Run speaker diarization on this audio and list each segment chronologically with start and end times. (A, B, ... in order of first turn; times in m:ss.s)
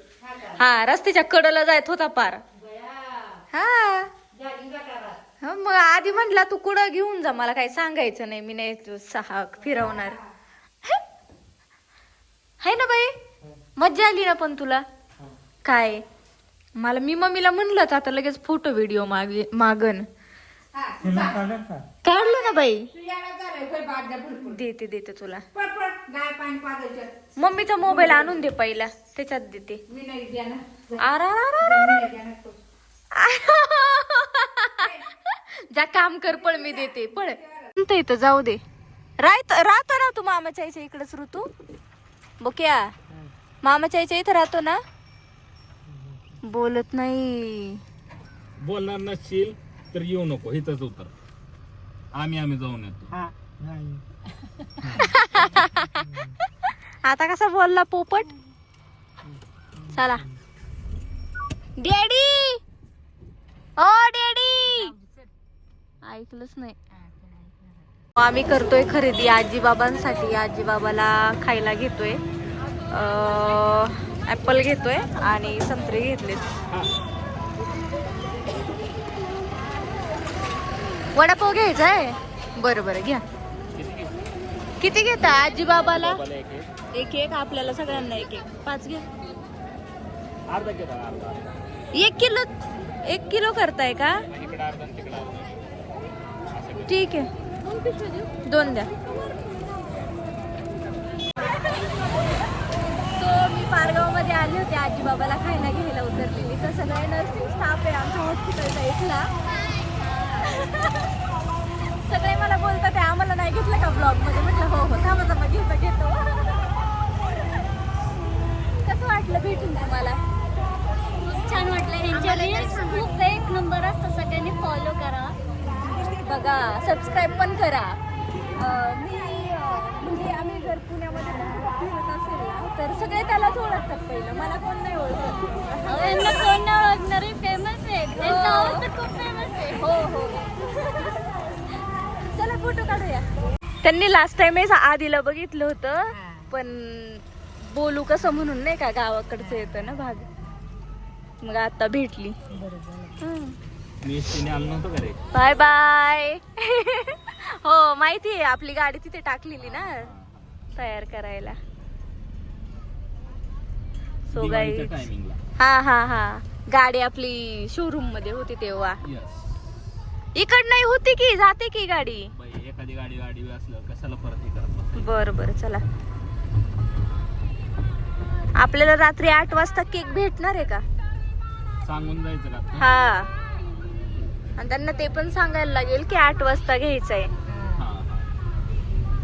0:00.2-0:00.6 A
0:00.6-0:02.4 B
0:02.6-0:03.4 A
0:03.5-0:04.1 B
0:04.3-0:05.2 A
0:05.4-0:10.2 B
0:09.6-0:10.2 A
0:12.6-0:13.2 B
0:13.8-0:14.8 B
0:15.6-0:16.0 B
0:16.8-0:20.0 B
0:20.7-0:21.4 A
0:21.0-0:21.8 C
0:22.0-0:22.9 B
0:22.1-0:24.6 A
0:24.4-0:25.4 B
0:25.5-0:27.2 A
0:27.4-0:29.8 B
0:27.8-0:28.4 A
0:29.9-0:31.0 A
0:31.0-0:32.0 B
0:31.6-0:32.6 A
0:33.2-0:38.6 B
0:34.8-0:35.1 A
0:36.2-0:37.7 A
0:39.2-0:41.5 B
0:42.4-0:42.9 B
0:43.6-0:44.8 B
0:45.9-0:46.2 C
0:46.4-0:47.8 B
0:48.6-0:51.1 D
0:52.1-0:53.1 D
0:53.1-0:54.0 C
0:54.8-0:55.2 D
0:55.0-0:56.1 B
0:56.0-0:56.3 C
0:57.0-0:58.3 B
0:59.8-1:00.4 C
0:59.9-1:00.2 B
1:01.8-1:02.6 B
1:03.8-1:04.9 B
1:06.0-1:06.8 B
1:07.1-1:07.7 A
1:08.2-1:12.2 B
1:12.9-1:16.5 B
1:21.1-1:23.2 B
1:23.7-1:24.2 D
1:24.8-1:26.2 B
1:25.2-1:26.7 D
1:26.9-1:29.0 B
1:30.5-1:31.5 D
1:31.9-1:32.5 B
1:33.0-1:34.2 B
1:34.3-1:35.7 D
1:36.4-1:37.1 D
1:36.8-1:37.3 B
1:38.4-1:38.9 B
1:41.4-1:41.9 B
1:43.1-1:49.3 B
1:50.2-1:51.1 B
1:52.0-1:56.7 B
1:58.8-2:00.2 B
2:01.2-2:05.3 B
2:01.5-2:03.9 E
2:06.0-2:08.0 B
2:08.5-2:16.6 B
2:15.8-2:20.3 E
2:18.1-2:18.9 B
2:19.6-2:21.3 B
2:22.3-2:23.3 B
2:23.8-2:30.3 B
2:31.4-2:32.4 B
2:32.6-2:33.2 A
2:33.2-2:33.5 B
2:34.0-2:35.2 D
2:35.3-2:40.1 B
2:39.6-2:40.6 D
2:40.8-2:41.6 B
2:44.3-2:44.9 B
2:44.3-2:45.4 D
2:45.6-2:49.0 B
2:49.0-2:50.0 D
2:50.3-2:52.3 B
2:52.3-2:55.1 D
2:55.0-2:55.8 B
2:58.6-3:00.8 B
3:01.8-3:02.9 D
3:02.8-3:03.3 B
3:04.6-3:07.3 B
3:07.7-3:08.3 D